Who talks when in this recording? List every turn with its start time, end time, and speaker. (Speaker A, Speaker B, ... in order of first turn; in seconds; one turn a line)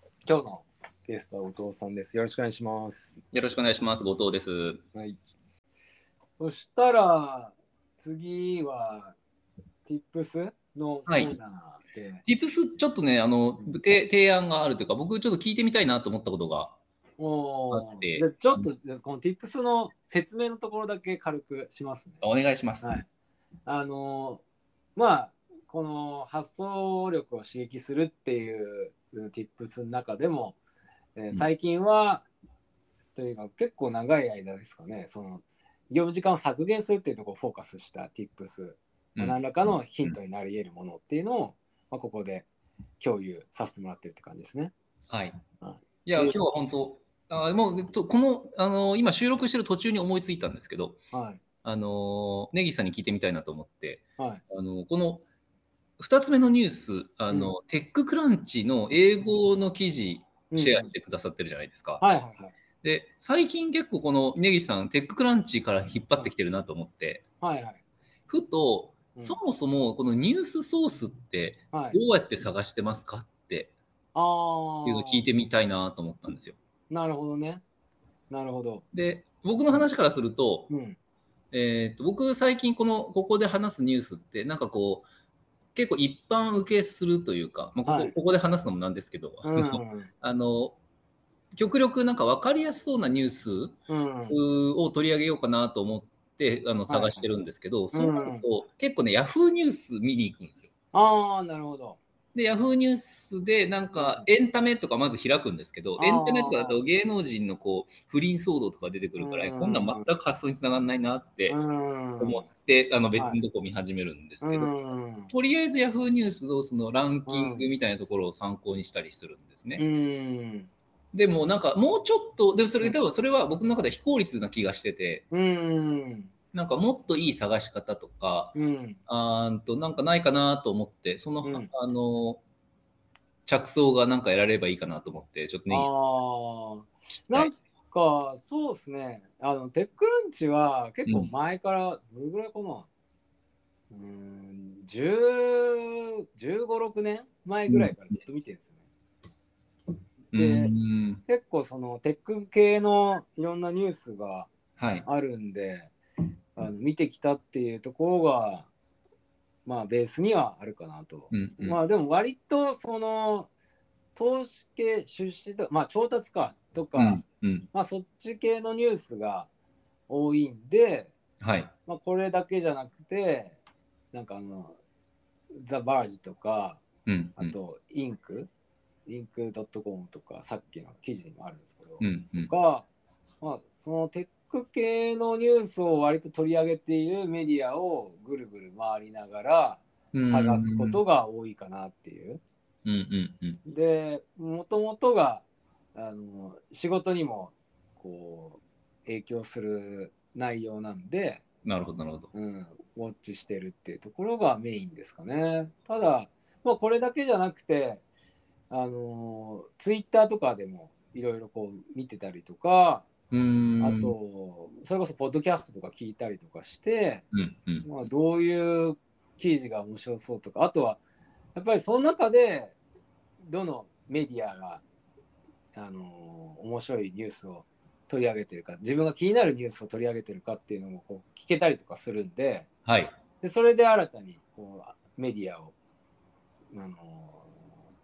Speaker A: 0.3-3.2
Speaker B: 3.3-4.8
Speaker A: 4.9-5.2
Speaker A: 6.4-9.2
Speaker A: 9.9-12.2
Speaker B: 11.1-11.3
Speaker B: 12.2-16.8
Speaker A: 17.2-22.2
Speaker B: 17.7-18.7
Speaker B: 22.2-22.9
Speaker A: 22.8-23.1
Speaker A: 23.7-24.4
Speaker A: 25.0-30.6
Speaker A: 31.2-32.3
Speaker A: 33.2-42.5
Speaker A: 43.0-44.7
Speaker B: 45.1-45.4
Speaker A: 45.6-46.5
Speaker B: 46.0-51.0
Speaker A: 51.1-51.4
Speaker B: 51.6-55.2
Speaker B: 56.0-62.0
Speaker A: 60.5-60.9
Speaker A: 62.0-62.6
Speaker B: 62.8-67.2
Speaker A: 67.4-67.8
Speaker B: 68.3-73.7
Speaker A: 71.7-72.0
Speaker A: 74.1-75.3
Speaker B: 74.8-76.6
Speaker A: 76.9-77.6
Speaker A: 78.3-78.8
Speaker B: 78.9-80.7
Speaker A: 80.7-81.0
Speaker B: 81.5-85.1
Speaker B: 85.8-90.8
Speaker A: 87.9-88.1
Speaker A: 89.4-90.1
Speaker B: 91.5-93.8
Speaker A: 93.9-94.4
Speaker B: 94.3-100.7
Speaker A: 96.9-97.3
Speaker A: 97.9-98.5
Speaker A: 100.9-102.0
Speaker B: 102.3-111.6
Speaker A: 104.0-104.2
Speaker A: 106.0-106.8
Speaker A: 109.2-110.1
Speaker A: 111.5-112.5
Speaker B: 112.2-114.7
Speaker A: 114.4-115.3
Speaker B: 115.3-119.8
Speaker A: 117.3-117.7
Speaker A: 119.8-120.7
Speaker B: 121.1-125.2
Speaker A: 125.3-126.3
Speaker B: 126.5-128.6
Speaker A: 128.5-129.0
Speaker B: 129.1-132.4
Speaker A: 131.4-131.7
Speaker B: 133.5-135.9
Speaker A: 135.7-142.9
Speaker B: 141.1-141.3
Speaker A: 143.9-148.8
Speaker B: 147.7-148.2
Speaker A: 150.3-150.7
Speaker B: 150.3-151.2
Speaker A: 151.3-154.5
Speaker B: 154.8-155.1
Speaker A: 155.1-155.9
Speaker A: 156.6-158.7
Speaker A: 159.7-163.5
Speaker B: 161.3-161.8
Speaker A: 164.2-169.5
Speaker B: 167.0-167.7
Speaker A: 170.1-171.1
Speaker B: 171.4-171.7
Speaker A: 171.9-173.6
Speaker A: 174.1-174.8
Speaker A: 175.5-176.8
Speaker B: 177.1-177.5
Speaker A: 177.4-178.5
Speaker A: 179.1-182.9
Speaker B: 182.0-182.5
Speaker A: 183.4-192.4
Speaker B: 190.1-191.0
Speaker B: 192.8-193.6
Speaker A: 193.7-195.4
Speaker A: 195.9-201.4
Speaker B: 201.6-202.3
Speaker A: 202.3-208.0
Speaker A: 208.7-213.1
Speaker B: 213.3-214.2
Speaker A: 213.8-217.3
Speaker B: 217.3-217.9
Speaker A: 217.8-221.0
Speaker A: 221.6-222.8
Speaker A: 223.4-224.8
Speaker A: 225.8-232.7
Speaker B: 232.9-233.2
Speaker A: 233.4-235.7
Speaker A: 236.7-237.6